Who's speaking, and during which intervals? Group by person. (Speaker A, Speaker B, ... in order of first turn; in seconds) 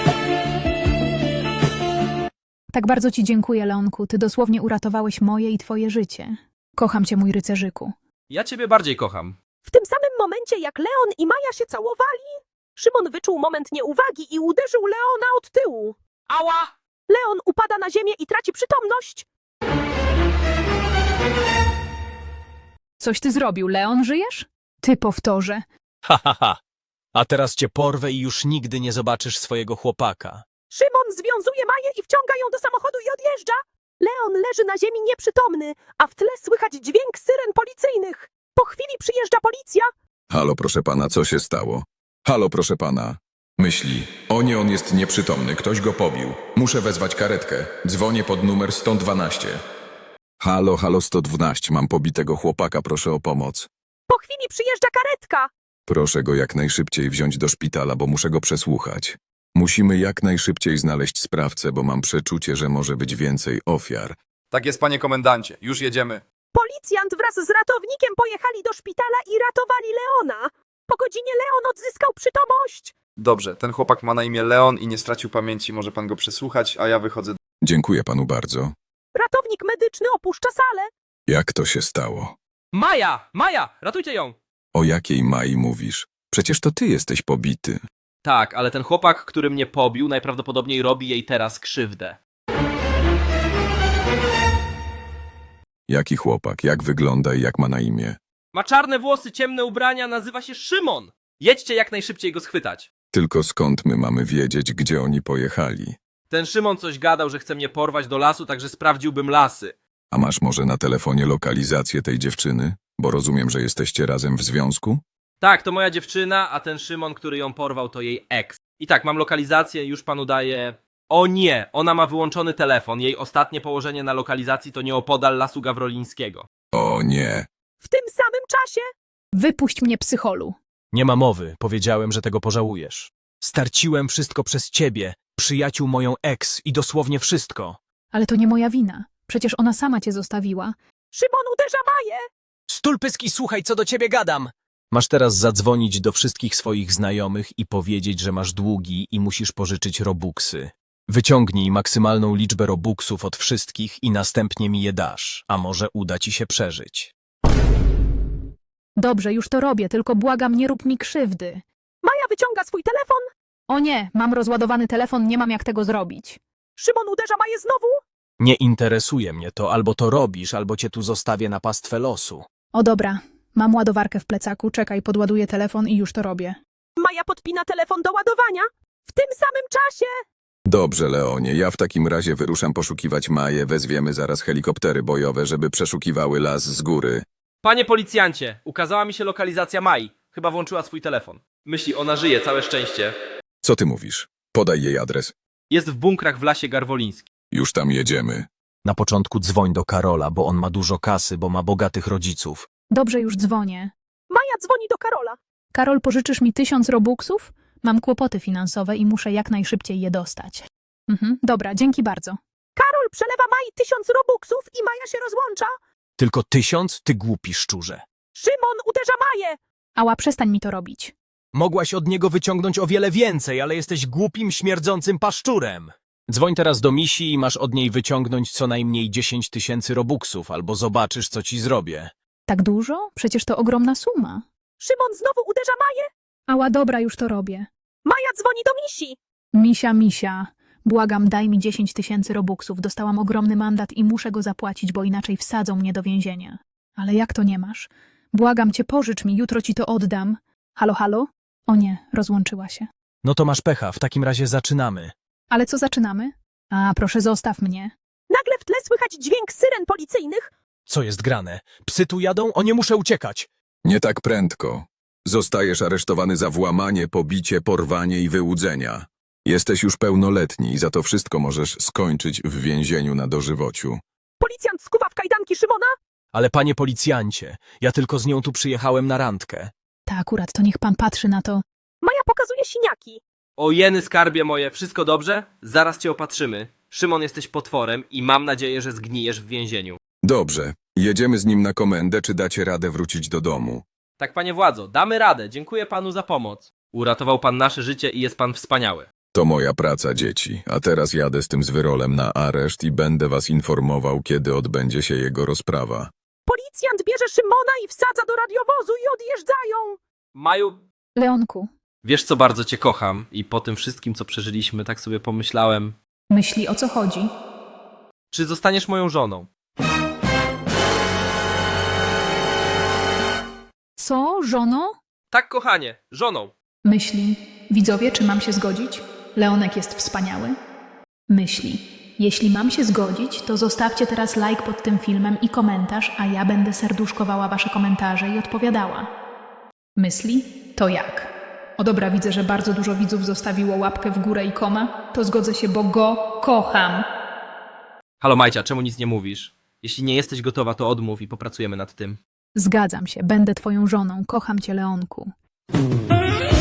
Speaker A: 2.7-7.9, 23.0-25.6, 129.3-130.6, 138.1-140.7, 159.0-161.6, 163.7-166.4, 172.7-176.6, 202.9-203.9, 205.7-212.4, 220.0-221.1, 232.5-234.4, 236.5-237.7, 239.5-252.9, 255.5-257.9, 280.1-281.6, 311.2-311.7, 316.3-317.3, 324.0-324.9, 326.8-330.6, 331.3-339.1, 339.9-347.1, 352.5-355.3
Speaker B: 8.3-9.4, 16.3-16.7, 82.7-84.3, 88.2-92.2, 98.5-102.9, 106.3-109.7, 115.4-126.5, 187.6-193.1, 195.7-197.2, 283.6-290.0, 294.2-299.1, 310.4-310.8, 312.0-315.9, 318.3-319.5, 325.3-326.5, 348.2-352.2
Speaker C: 9.6-16.0, 17.1-19.2, 30.7-39.9, 54.1-55.5, 66.5-72.9, 79.1-80.9, 127.8-128.8, 141.1-142.2, 162.0-163.2, 166.8-168.0, 177.0-180.1, 204.3-205.4, 212.8-215.7, 218.3-219.6, 234.8-236.1, 238.0-239.2, 258.3-260.5, 274.4-275.9, 282.0-283.2, 306.4-310.0
Speaker D: 26.1-26.6, 27.1-30.4, 130.9-137.8, 142.7-157.1, 168.4-172.4, 198.8-202.7, 216.2-218.0, 221.5-232.1, 253.2-255.1, 260.9-263.5, 276.3-279.7
Speaker E: 40.3-49.6, 50.4-53.7, 55.9-64.2, 77.6-78.7, 81.3-82.3, 84.7-87.8, 95.9-98.2, 103.1-106.0, 110.1-115.0, 126.7-127.5, 180.7-187.2, 193.6-195.3, 197.5-198.5, 263.8-274.0, 290.2-293.8, 299.3-306.1
Speaker F: 64.5-66.2, 73.2-77.4